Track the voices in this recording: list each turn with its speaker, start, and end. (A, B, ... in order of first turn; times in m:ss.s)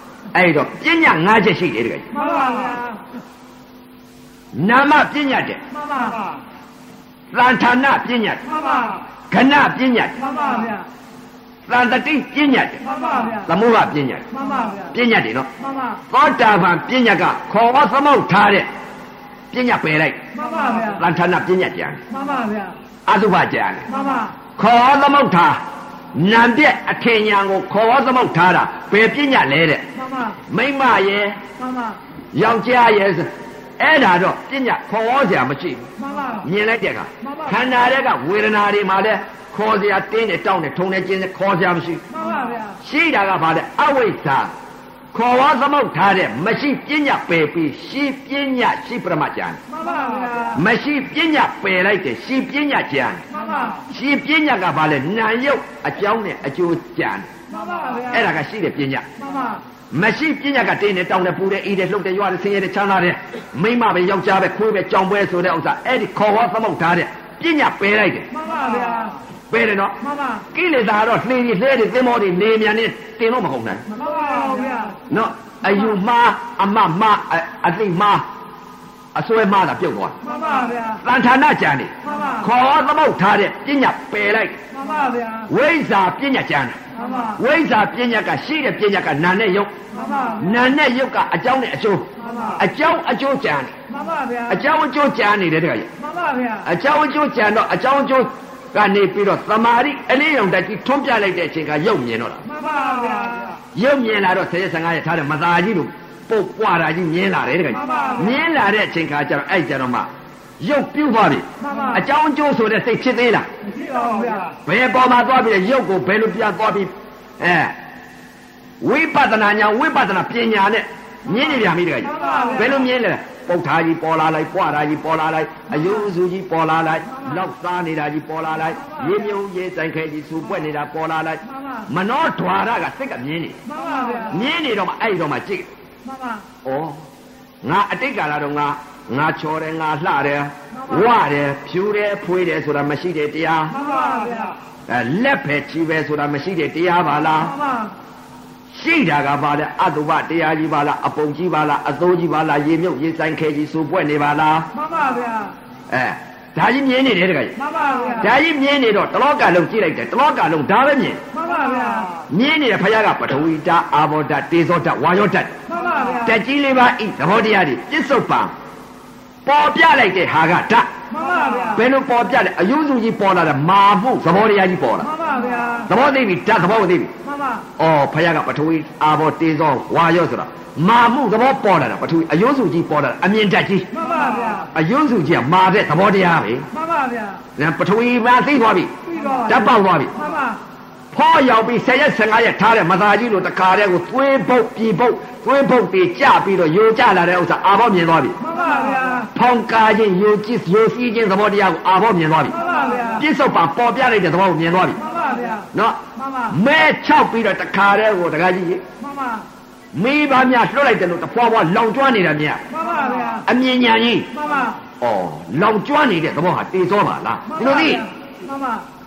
0:00.3-0:02.1 A
0:02.1-0:03.0 B
0:04.5-0:05.6 A
0:05.8-0:06.2 B
0:07.3-0:08.5 A
0:09.3-0:10.3 A
0:10.2-0:10.8 B
0:11.7-0:14.3 A
0:12.9-0:13.4 B
0:14.3-0:14.9 B
0:14.9-0:15.5 A
0:16.1-0:18.7 A
0:19.5-0:20.2 A
0:20.3-0:21.0 B
0:20.9-0:22.0 A
0:22.1-0:22.7 B
0:23.1-0:23.9 A
0:23.9-0:24.3 B
0:24.6-0:25.6 A
0:26.1-0:29.9 A
0:30.5-0:31.4 A
0:31.6-0:32.0 B
0:32.3-0:35.9 A
0:36.0-0:36.4 B
0:36.4-0:42.0 A
0:42.1-0:42.7 B
0:42.8-0:44.5 A
0:45.1-0:49.6 A
0:49.7-0:50.6 B
0:50.5-0:53.2 A
0:53.3-0:53.8 B
0:53.9-0:57.3 A
0:57.5-0:58.1 B
0:58.1-0:59.0 A
0:59.2-0:59.6 B
0:59.9-1:08.3 A
1:08.3-1:09.2 B
1:09.5-1:10.0 A
1:10.5-1:13.8 A
1:13.9-1:15.0 B
1:15.1-1:18.2 A
1:19.1-1:20.2 A
1:20.2-1:21.0 B
1:21.0-1:24.6 A
1:24.7-1:25.4 B
1:25.5-1:26.8 A
1:26.9-1:27.4 B
1:27.3-1:29.7 A
1:29.9-1:30.4 B
1:30.4-1:33.7 A
1:32.2-1:32.6 B
1:33.9-1:34.6 B
1:34.5-1:35.9 A
1:36.0-1:36.6 B
1:36.6-1:42.4 A
1:42.5-1:43.6 B
1:43.7-1:53.5 A
1:47.8-1:48.2 B
1:51.6-1:51.9 B
1:53.7-1:54.5 B
1:54.6-1:57.8 A
1:58.8-2:13.6 A
2:02.2-2:02.6 B
2:11.6-2:11.8 B
2:13.7-2:14.3 B
2:14.3-2:15.7 A
2:16.0-2:16.4 B
2:16.6-2:17.0 A
2:17.6-2:23.8 A
2:23.7-2:24.5 B
2:24.9-2:27.6 A
2:27.6-2:27.9 B
2:28.7-2:34.7 A
2:34.8-2:35.5 B
2:35.9-2:37.6 A
2:37.6-2:38.2 B
2:38.2-2:41.2 A
2:41.3-2:42.1 B
2:42.3-2:45.6 A
2:45.7-2:46.2 B
2:46.2-2:48.5 A
2:49.4-2:50.9 A
2:51.1-2:51.8 B
2:51.7-2:55.1 A
2:55.1-2:55.8 B
2:55.9-2:57.1 A
2:57.8-3:03.9 A
3:03.9-3:04.7 B
3:04.7-3:06.7 A
3:06.7-3:07.4 B
3:07.6-3:08.9 A
3:09.1-3:09.6 B
3:09.4-3:10.1 A
3:10.2-3:10.6 B
3:11.1-3:18.4 A
3:18.4-3:19.3 B
3:19.3-3:22.6 A
3:22.5-3:23.2 B
3:23.2-3:25.0 A
3:25.0-3:25.7 B
3:25.7-3:28.8 A
3:29.0-3:29.4 B
3:29.9-3:32.6 A
3:32.7-3:33.4 B
3:33.4-3:34.4 A
3:34.4-3:34.7 B
3:35.0-3:38.1 A
3:37.6-3:38.8 B